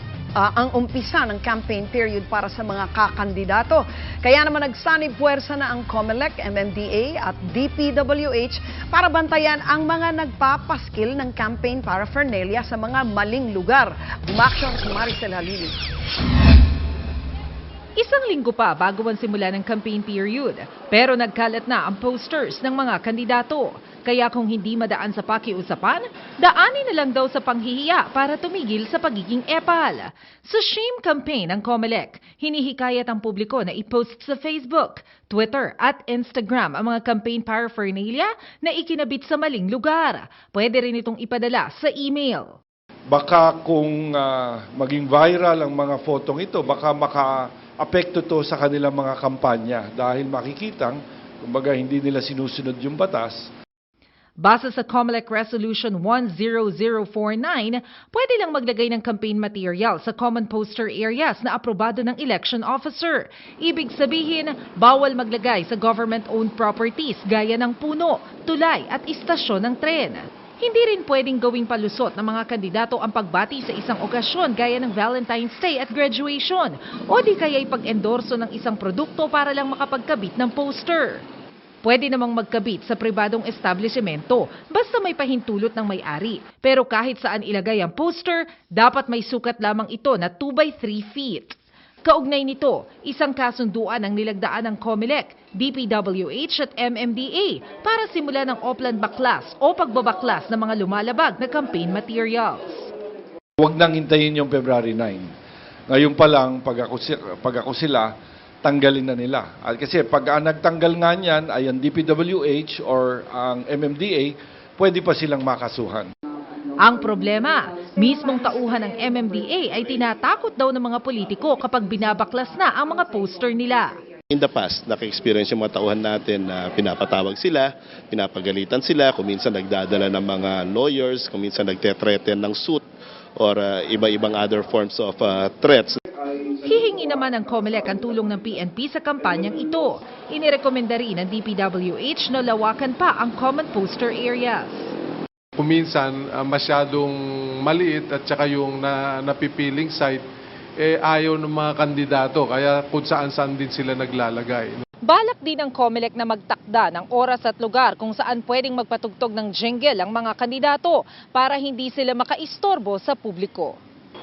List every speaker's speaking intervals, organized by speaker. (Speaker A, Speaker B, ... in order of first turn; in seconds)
Speaker A: 0.4-15.7
Speaker B: 17.9-42.5, 54.4-81.2, 81.8-102.9, 116.8-123.9, 136.6-144.9, 155.0-163.8
Speaker C: 43.1-53.5, 103.6-105.3, 105.9-108.1, 108.6-116.1
Speaker D: 124.3-132.8, 133.4-136.0
Speaker E: 145.6-150.2, 150.8-154.8